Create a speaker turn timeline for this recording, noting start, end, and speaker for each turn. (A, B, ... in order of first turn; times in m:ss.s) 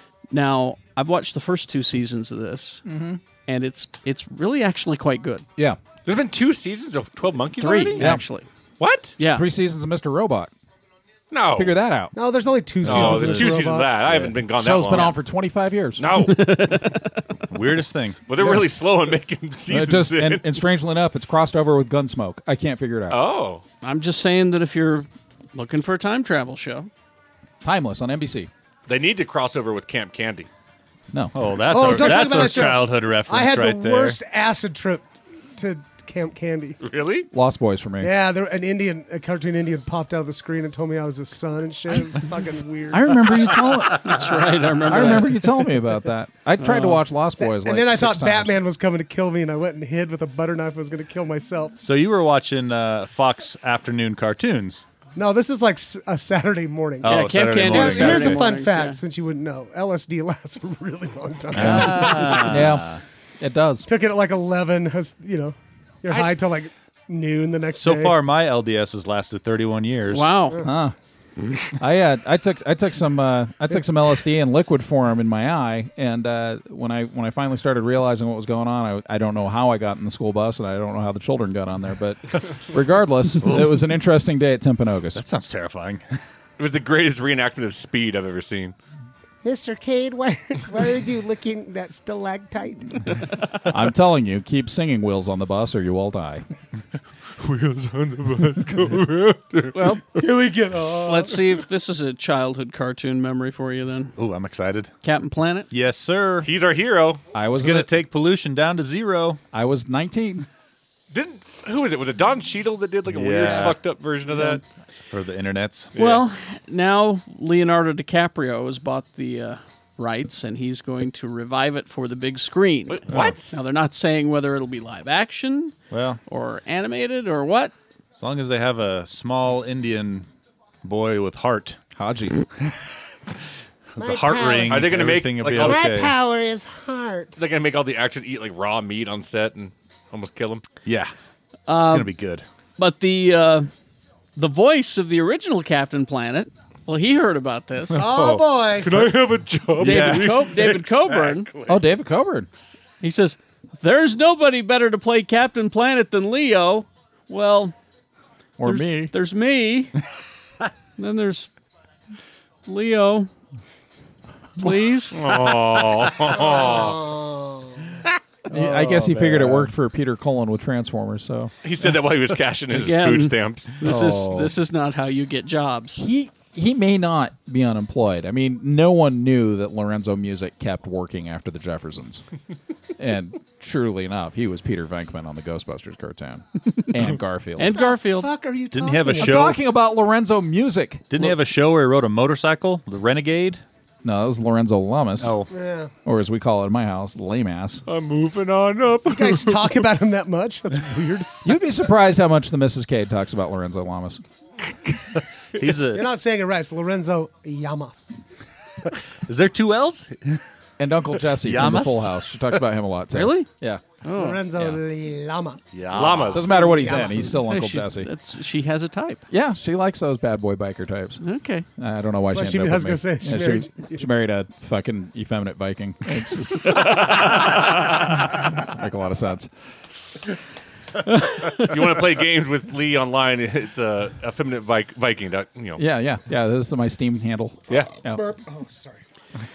0:00.3-0:02.8 A
0:02.8-0:03.2 B
0:03.5-0:05.4 A
0:06.0-0:08.1 C
0:07.6-0:08.5 A
0:08.8-0:09.2 C
0:09.2-0:09.4 A
0:09.2-0:10.5 B
0:11.3-0:11.7 C
0:11.5-0:12.1 B
0:12.1-0:14.0 D
0:12.8-0:13.6 B
0:12.8-0:15.2 C
0:14.3-0:16.0 B
0:16.0-0:16.6 C
0:16.2-0:17.2 A
0:17.5-0:18.2 E
0:18.3-0:20.6 C
0:19.7-0:23.2 B
0:23.1-0:23.6 C
0:23.8-0:26.9 A
0:27.6-0:28.5 B
0:28.9-0:30.5 C
0:31.1-0:32.2 B
0:31.3-0:34.2 E
0:31.7-0:35.0 D
0:35.6-0:36.8 D
0:36.8-0:37.3 C
0:37.3-0:38.1 B
0:38.0-0:43.5 D
0:42.9-0:44.3 B
0:44.0-0:45.4 A
0:44.8-0:48.6 B
0:44.9-0:45.3 D
0:46.6-0:47.0 A
0:47.4-0:51.8 D
0:51.8-0:54.8 E
0:55.2-1:02.5 D
0:57.0-0:58.4 E
0:57.0-0:59.0 A
1:01.5-1:02.9 E
1:01.5-1:03.9 B
1:01.7-1:02.4 A
1:03.9-1:08.2 D
1:06.1-1:06.4 C
1:07.7-1:10.3 E
1:10.1-1:10.6 A
1:10.6-1:10.9 B
1:11.8-1:25.2 B
1:25.1-1:26.0 E
1:26.6-1:28.7 C
1:29.4-1:33.2 D
1:33.6-1:36.4 B
1:37.4-1:39.7 C
1:39.7-1:40.0 A
1:40.2-1:41.6 D
1:41.0-1:44.1 A
1:44.2-1:44.9 E
1:45.0-1:45.7 A
1:45.7-1:46.5 E
1:46.4-1:47.2 C
1:47.3-1:47.9 B
1:47.5-1:49.4 E
1:49.5-1:50.4 B
1:51.1-1:54.6 C
1:53.1-1:53.8 E
1:54.3-1:54.6 E
1:55.1-1:55.9 E
1:56.0-1:56.2 C
1:56.0-2:05.7 A
2:02.9-2:03.5 C
2:05.9-2:06.2 E
2:06.3-2:07.7 A
2:08.1-2:10.3 E
2:10.8-2:11.8 E
2:12.0-2:12.4 B
2:14.0-2:16.1 E
2:14.0-2:15.0 D
2:14.7-2:15.9 C
2:15.6-2:17.3 D
2:17.4-2:20.7 C
2:20.8-2:21.1 E
2:21.7-2:22.1 A
2:21.8-2:22.4 E
2:22.8-2:23.7 A
2:24.4-2:28.0 A
2:27.9-2:29.1 D
2:28.0-2:29.2 E
2:28.8-2:31.8 C
2:29.7-2:30.7 E
2:29.8-2:31.5 A
2:31.7-2:32.5 B
2:33.0-2:37.7 A
2:38.6-2:39.1 B
2:38.6-2:39.9 A
2:41.0-2:41.5 A
2:42.6-2:43.3 A
2:44.6-2:45.2 A
2:45.1-2:47.0 C
2:46.3-2:47.9 D
2:48.5-2:51.5 B
2:48.8-2:49.7 E
2:51.6-2:53.8 C
2:52.7-2:56.0 A
2:53.8-2:54.5 E
2:56.0-3:02.2 B
3:03.0-3:07.8 B
3:07.6-3:08.3 A
3:07.7-3:09.6 D
3:08.7-3:09.6 E
3:09.2-3:11.3 B
3:11.1-3:13.6 E
3:14.0-3:15.4 B
3:15.2-3:15.5 E
3:15.5-3:15.9 D
3:16.0-3:17.8 B
3:17.9-3:19.6 C
3:18.0-3:18.2 E
3:19.1-3:21.3 D
3:21.4-3:24.2 B
3:25.5-3:26.1 E
3:25.9-3:28.1 D
3:29.3-3:30.4 E
3:30.8-3:33.8 B
3:31.4-3:32.1 E
3:33.1-3:33.5 A
3:34.0-3:34.4 A
3:34.1-3:35.6 D
3:35.7-3:36.4 E
3:35.9-3:36.5 C
3:36.3-3:38.1 B
3:36.3-3:37.4 D
3:37.3-3:39.2 A
3:39.3-3:41.2 B
3:41.2-3:41.6 A
3:41.8-3:49.5 B
3:42.3-3:44.0 D
3:51.6-3:55.8 C
3:55.8-3:58.2 B
3:58.0-3:59.0 D